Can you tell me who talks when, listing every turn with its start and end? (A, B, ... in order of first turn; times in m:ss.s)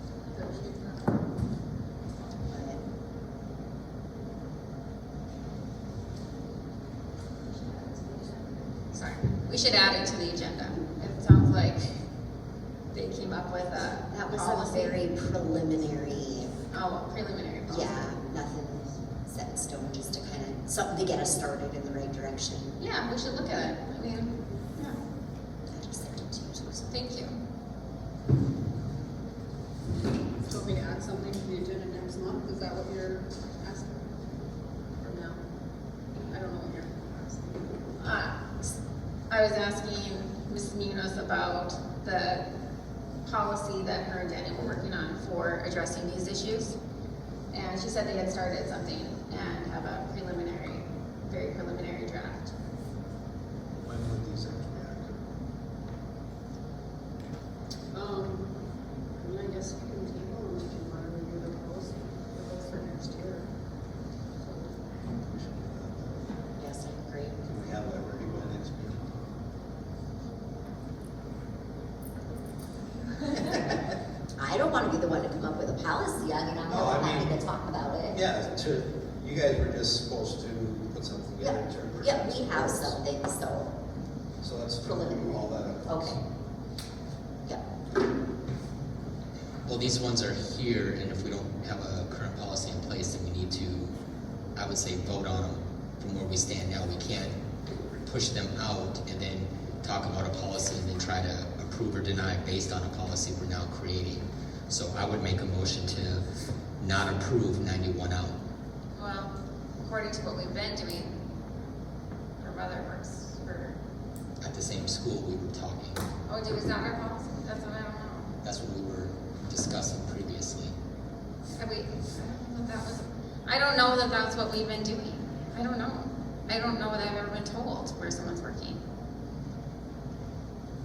0:00.4-0:00.7 A
0:02.4-0:02.8 B
0:08.9-0:12.0 C
0:12.9-0:15.0 C
0:14.1-0:16.5 B
0:16.7-0:18.0 C
0:17.7-0:22.8 B
0:22.8-0:25.0 C
0:25.7-0:26.9 B
0:26.9-0:27.3 C
0:30.4-0:34.1 A
0:35.0-0:35.4 A
0:36.3-0:37.8 A
0:38.0-0:38.7 C
0:39.3-0:42.5 C
0:43.2-0:46.8 C
0:47.5-0:52.5 C
0:53.8-0:55.2 D
0:57.9-0:58.5 A
0:59.2-1:03.5 A
1:04.4-1:05.0 A
1:05.1-1:06.2 D
1:06.6-1:07.4 B
1:07.4-1:09.0 D
1:14.4-1:18.2 B
1:16.6-1:17.4 D
1:18.1-1:23.0 D
1:21.4-1:23.7 B
1:24.4-1:26.2 D
1:24.8-1:26.2 B
1:29.6-1:33.9 E
1:34.6-1:37.4 E
1:38.0-1:46.2 E
1:46.8-1:48.4 E
1:48.9-1:51.1 C
1:52.4-1:53.8 C
1:54.4-1:56.0 E
1:56.3-1:58.3 C
1:58.4-2:00.7 E
2:01.5-2:08.8 C